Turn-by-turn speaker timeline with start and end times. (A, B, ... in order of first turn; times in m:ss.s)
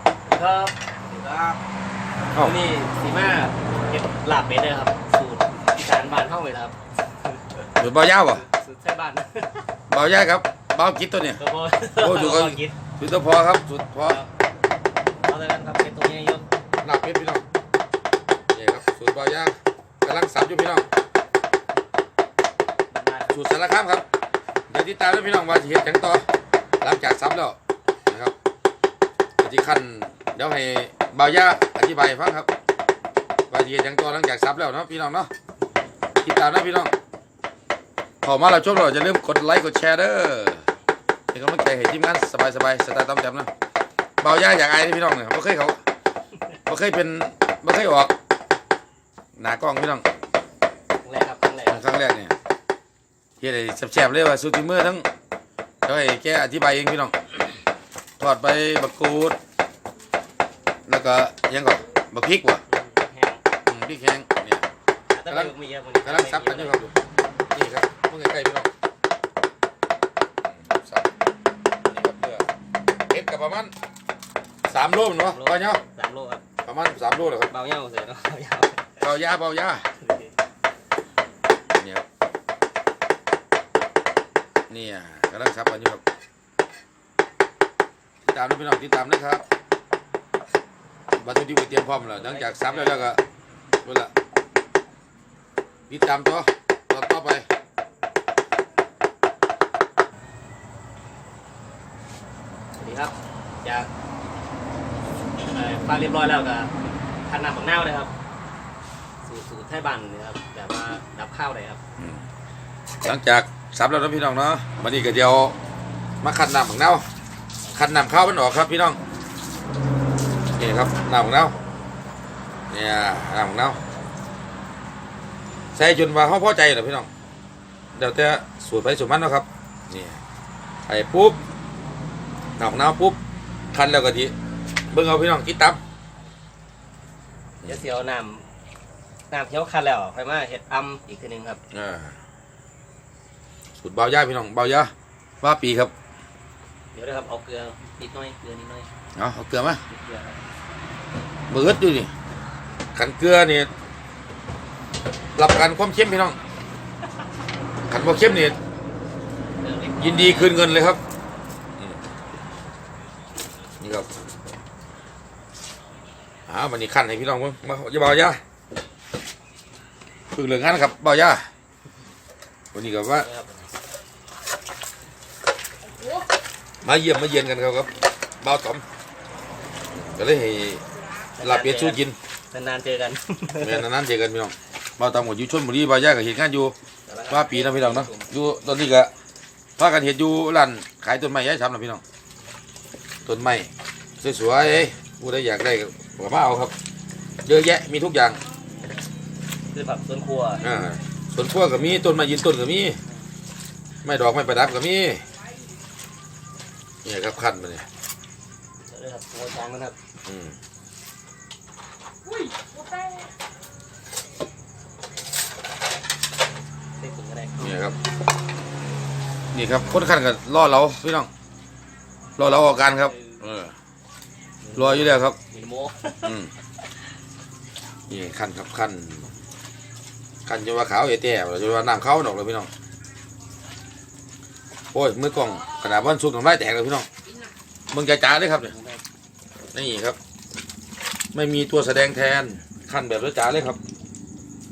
0:00.2-0:01.6 A
0:02.4-0:09.7 A
0:07.8-0:08.4 B
0:09.9-0:11.4 B
0:11.4-0:12.8 A
0:12.0-0:14.2 B
0:15.2-0:16.4 A
0:16.8-0:17.4 B
0:18.5-0:20.9 B
0:22.9-0:23.4 A
0:23.3-0:24.0 B
0:24.7-0:26.3 B
0:26.8-0:28.3 B
0:29.4-0:32.5 B
0:33.5-0:35.3 B
0:36.2-0:36.9 B
0:38.2-0:40.6 B
0:41.3-0:43.5 B
0:44.2-0:45.8 B
0:46.7-0:48.1 B
0:49.4-0:50.0 B
0:51.0-0:51.9 A
0:51.7-0:52.4 B
0:53.4-0:55.1 B
0:55.8-0:57.3 B
0:58.2-0:59.4 B
1:00.9-1:02.6 B
1:02.7-1:03.4 A
1:03.6-1:04.7 B
1:05.1-1:06.8 A
1:05.3-1:08.7 B
1:10.4-1:11.1 B
1:11.8-1:12.5 B
1:13.0-1:13.7 B
1:14.6-1:15.8 B
1:15.2-1:16.4 A
1:16.6-1:17.5 B
1:17.4-1:19.0 A
1:19.0-1:19.9 B
1:20.0-1:20.3 A
1:21.7-1:22.0 B
1:24.7-1:26.0 B
1:28.3-1:29.4 B
1:31.1-1:33.2 B
1:32.1-1:33.2 A
1:33.8-1:34.1 B
1:35.9-1:37.5 B
1:42.8-1:43.9 A
1:45.5-1:46.7 A
1:47.2-1:48.1 A
1:49.2-1:51.8 A
1:52.0-1:52.2 B
1:53.0-1:55.6 B
1:56.2-1:57.0 B
1:57.7-1:59.0 B
2:00.6-2:01.6 B
2:02.7-2:03.8 B
2:05.7-2:07.1 B
2:07.9-2:10.2 B
2:10.9-2:11.4 B
2:12.6-2:13.2 B
2:13.7-2:14.3 B
2:14.9-2:15.8 B
2:17.6-2:17.9 B
2:17.6-2:18.4 A
2:19.3-2:21.6 A
2:21.7-2:22.2 B
2:23.8-2:25.9 B
2:26.9-2:28.9 A
2:29.2-2:29.8 B
2:29.9-2:30.4 A
2:31.5-2:32.1 B
2:32.9-2:33.7 B
2:35.4-2:36.4 B
2:37.9-2:38.6 B
2:39.6-2:40.6 A
2:40.0-2:41.0 B
2:41.8-2:42.0 B
2:43.8-2:44.1 B
2:46.5-2:48.4 B
2:50.3-2:51.5 B
2:52.7-2:53.3 B
2:53.2-2:53.7 A
2:56.8-2:58.8 B
2:59.9-3:00.8 B
3:01.4-3:03.8 A
3:01.4-3:02.2 B
3:03.6-3:06.7 B
3:07.1-3:08.3 A
3:07.3-3:09.1 B
3:09.8-3:12.0 B
3:13.2-3:16.7 B
3:17.4-3:18.4 B
3:19.7-3:20.6 A
3:20.6-3:23.0 B
3:24.0-3:25.2 B
3:27.0-3:27.8 B
3:28.9-3:30.0 A
3:30.2-3:30.6 B
3:37.0-3:37.8 A
3:37.6-3:38.0 B
3:39.5-3:41.3 B
3:42.4-3:43.8 B
3:42.8-3:43.4 A
3:44.6-3:46.3 A
3:44.8-3:45.4 B
3:46.2-3:46.5 B
3:48.1-3:49.3 B
3:50.4-3:52.7 B
3:54.9-3:57.1 B
3:57.9-3:58.7 B
3:58.6-3:59.0 A
3:59.7-4:00.2 B
4:01.3-4:03.8 B